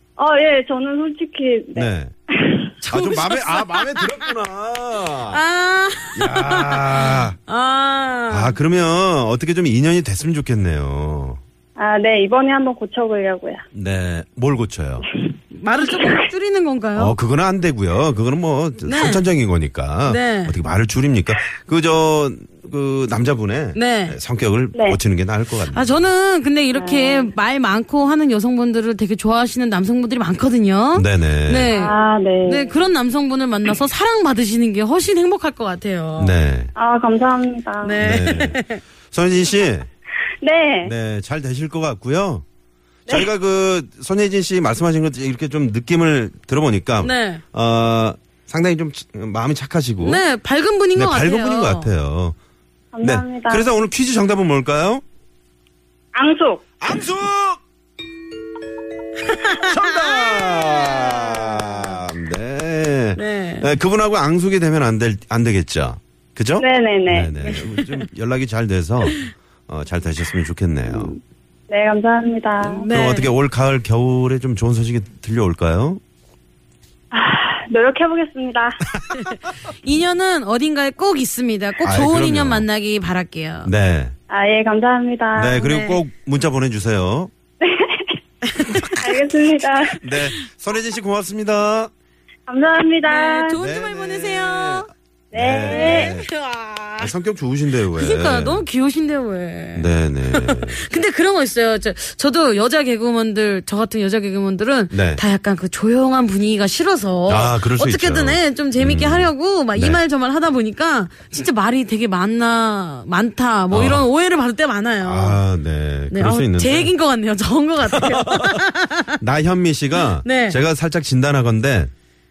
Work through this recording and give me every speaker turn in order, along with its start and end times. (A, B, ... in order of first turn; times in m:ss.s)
0:00.2-0:02.6 A
0:01.7-0:02.1 B
0:02.8-0:04.3 C
0:02.9-0:05.4 B
0:05.3-0:08.5 C
0:06.1-0:07.4 B
0:08.3-0:11.4 B
0:11.8-0:13.6 A
0:13.7-0:15.0 B
0:15.1-0:16.3 A
0:15.5-0:17.2 C
0:17.0-0:26.0 B
0:18.8-0:19.3 C
0:20.0-0:20.6 C
0:23.7-0:24.2 C
0:25.7-0:36.3 C
0:26.7-0:27.3 A
0:30.9-0:31.7 B
0:31.7-0:32.8 A
0:36.2-0:36.7 B
0:36.8-0:38.0 A
0:37.8-0:38.8 C
0:38.0-0:39.9 B
0:40.4-0:40.9 A
0:40.8-0:42.4 B
0:43.1-0:50.2 B
0:47.0-0:47.4 C
0:50.0-0:51.9 C
0:50.9-0:52.4 B
0:52.9-0:53.7 A
0:53.0-0:55.0 B
0:56.1-0:56.7 A
0:56.8-0:57.6 B
0:59.2-1:01.9 C
0:59.6-1:11.1 B
1:03.2-1:03.7 C
1:06.6-1:07.3 A
1:07.4-1:08.0 C
1:09.0-1:09.3 C
1:11.7-1:12.9 A
1:12.7-1:16.0 B
1:12.8-1:13.3 C
1:17.1-1:18.8 A
1:19.1-1:23.7 C
1:21.8-1:22.6 B
1:23.6-1:24.1 B
1:24.3-1:25.6 A
1:25.3-1:27.3 B
1:25.6-1:26.0 C
1:27.6-1:28.2 A
1:28.6-1:29.0 C
1:29.0-1:30.0 A
1:30.0-1:31.9 B
1:32.5-1:33.6 A
1:33.1-1:34.9 C
1:33.6-1:36.3 B
1:35.3-1:36.2 A
1:35.6-1:37.1 C
1:37.0-1:38.6 B
1:37.9-1:55.4 C
1:39.7-1:40.8 B
1:44.9-1:45.2 B
1:47.3-1:50.0 B
1:53.7-1:54.0 B
1:55.0-1:56.9 B
1:56.1-1:59.2 C
1:57.9-1:58.6 B
1:59.2-2:01.9 B
2:00.2-2:00.6 C